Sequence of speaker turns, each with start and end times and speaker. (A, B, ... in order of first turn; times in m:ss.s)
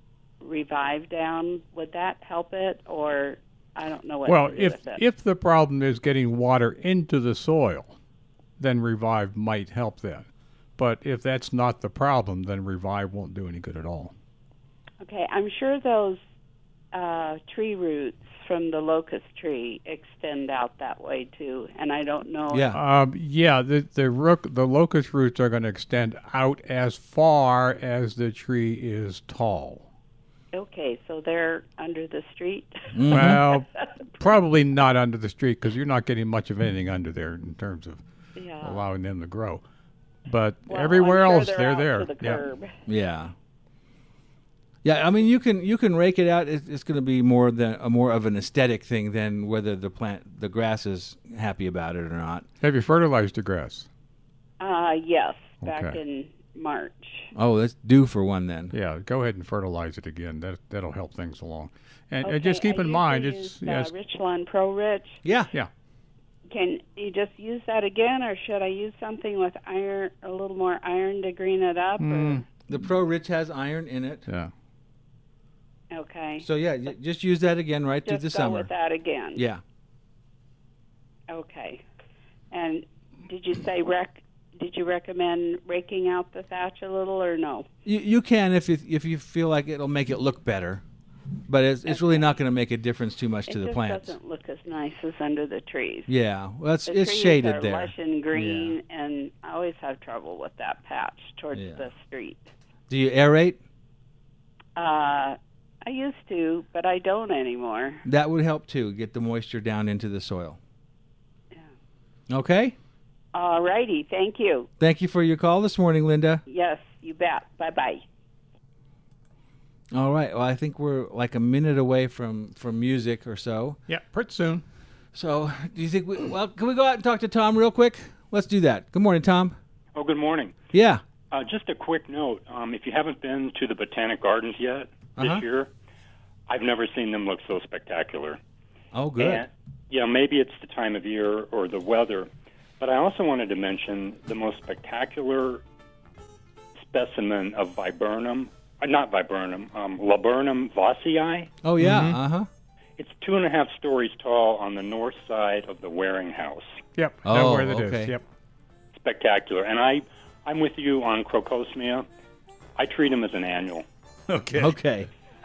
0:00.4-0:05.0 A
0:04.3-0:08.0 B
0:08.6-0:14.1 B
0:15.0-0:16.2 A
0:16.9-0:22.7 A
0:22.5-0:22.8 C
0:22.7-0:29.9 B
0:30.5-0:33.8 A
0:32.9-0:33.5 C
0:33.1-0:33.7 B
0:34.2-0:38.0 B
0:38.4-0:38.8 A
0:38.6-0:39.6 B
0:40.3-0:42.5 B
0:40.7-0:42.7 A
0:42.9-0:43.3 C
0:44.8-0:52.5 C
0:52.6-0:53.9 B
0:54.6-0:57.3 A
0:55.6-0:56.0 B
0:57.3-0:58.7 C
0:58.7-1:03.9 B
1:02.2-1:05.2 A
1:05.2-1:05.5 C
1:06.5-1:12.4 A
1:12.0-1:12.4 B
1:12.7-1:14.2 C
1:15.9-1:16.5 A
1:16.4-1:18.7 C
1:18.1-1:19.4 A
1:19.4-1:19.6 C
1:21.3-1:21.8 A
1:22.5-1:27.7 A
1:27.8-1:30.8 C
1:31.5-1:34.2 C
1:31.9-1:32.3 A
1:33.5-1:36.1 A
1:36.1-1:38.8 C
1:36.9-1:42.5 A
1:41.5-1:41.9 C
1:42.9-1:43.6 C
1:44.8-1:48.0 A
1:48.0-1:50.6 C
1:52.3-1:52.8 C
1:53.3-1:54.7 A
1:54.8-1:56.4 C
1:56.5-1:58.0 A
1:59.9-2:03.8 C
2:03.9-2:04.6 B
2:05.1-2:09.6 C
2:10.0-2:10.6 D
2:10.7-2:11.0 C
2:11.3-2:15.7 D
2:15.2-2:15.4 C
2:16.5-2:18.4 D
2:18.9-2:19.4 C
2:19.2-2:22.3 D
2:22.8-2:25.6 D
2:26.8-2:31.5 D
2:31.6-2:32.5 C
2:31.8-2:32.2 B
2:33.0-2:36.8 D
2:37.0-2:38.2 B
2:37.2-2:38.1 C
2:38.9-2:42.1 D
2:42.8-2:43.8 D
2:44.3-2:44.8 B
2:44.6-2:45.1 C